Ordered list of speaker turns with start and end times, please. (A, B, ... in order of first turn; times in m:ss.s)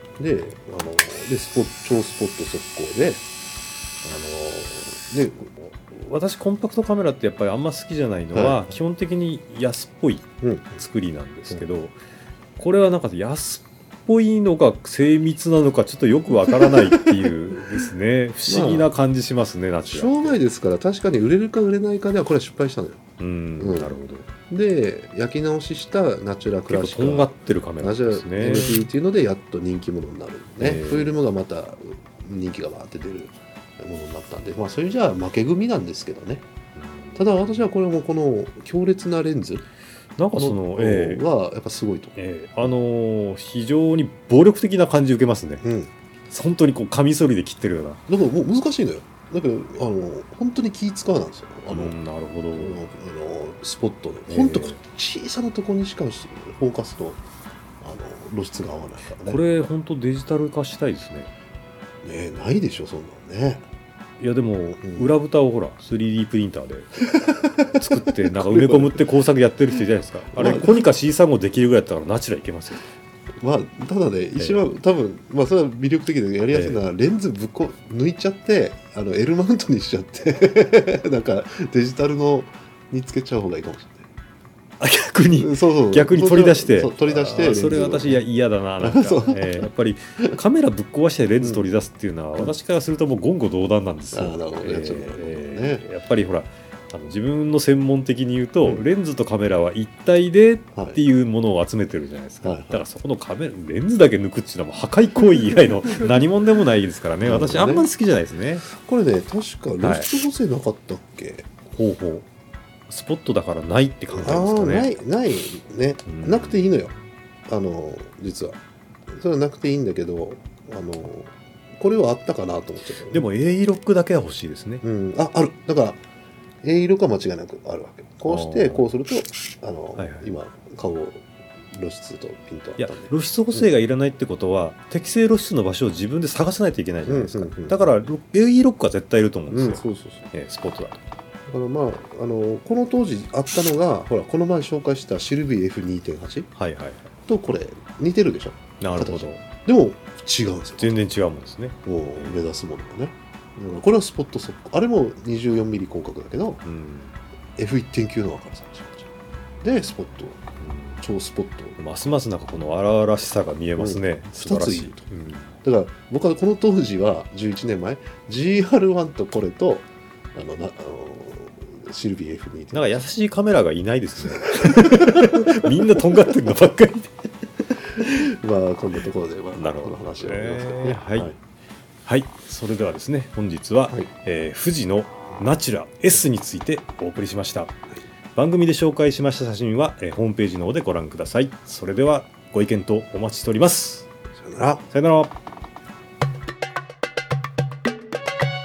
0:00.2-0:03.2 A
0:04.0-0:05.5 A
0:05.6-0:12.0 B
0:08.3-0:08.6 A
0:10.4-0:10.8 A
0:12.6-0:20.4 B
0:16.5-0:17.1 A
0:18.5-0:18.9 A
0:19.8-0:23.0 A
0:23.2-0:24.2 B
0:23.6-0:24.0 A
0:24.5-0:36.4 A
0:26.7-0:28.9 B
0:30.6-0:31.2 B
0:36.8-0:37.6 B
0:37.2-0:39.6 A
0:40.2-0:41.2 B
0:40.3-0:42.1 A
0:42.1-0:45.6 B
0:45.6-0:45.9 A
0:46.3-0:48.0 B
0:48.1-0:52.0 A
0:51.7-0:52.8 B
0:52.5-0:57.2 A
0:54.3-0:54.8 B
0:57.8-0:59.4 A
0:59.2-1:01.3 B
1:02.0-1:03.6 A
1:04.2-1:12.8 B
1:04.8-1:05.1 A
1:07.2-1:09.0 A
1:10.3-1:10.8 A
1:13.4-1:24.1 A
1:14.4-1:14.6 B
1:16.5-1:16.8 B
1:24.8-1:48.6 B
1:25.4-1:28.2 A
1:28.8-1:30.4 A
1:34.1-1:35.8 A
1:40.7-1:41.0 A
1:42.4-1:42.8 A
1:47.2-1:47.9 A
1:48.6-1:51.5 A
1:49.8-1:50.1 B
1:51.7-1:52.2 B
1:52.9-1:55.0 B
1:54.1-1:56.9 A
1:56.1-1:56.6 B
1:57.5-1:58.6 A
1:59.1-2:03.2 A
2:03.1-2:04.8 B
2:04.8-2:06.0 A
2:06.6-2:13.7 A
2:08.3-2:08.8 B
2:10.0-2:10.3 B
2:12.8-2:21.0 B
2:17.0-2:17.9 A
2:19.5-2:20.2 A
2:21.5-2:26.5 A
2:26.6-2:27.1 B
2:27.3-2:31.0 A
2:28.8-2:29.4 B
2:30.8-2:32.4 B
2:31.8-2:36.6 A
2:36.6-2:37.1 B
2:37.6-2:39.1 A
2:39.6-2:40.4 A
2:40.6-2:41.0 B
2:41.0-2:41.8 A
2:41.8-2:45.5 B
2:43.8-2:45.0 A
2:45.6-2:53.0 A
2:52.7-2:57.3 B
2:54.4-2:55.9 A
2:58.0-3:01.4 A
2:59.5-3:01.3 B
3:02.0-3:07.8 B
3:08.3-3:14.1 B
3:14.4-3:14.8 A
3:14.9-3:15.3 B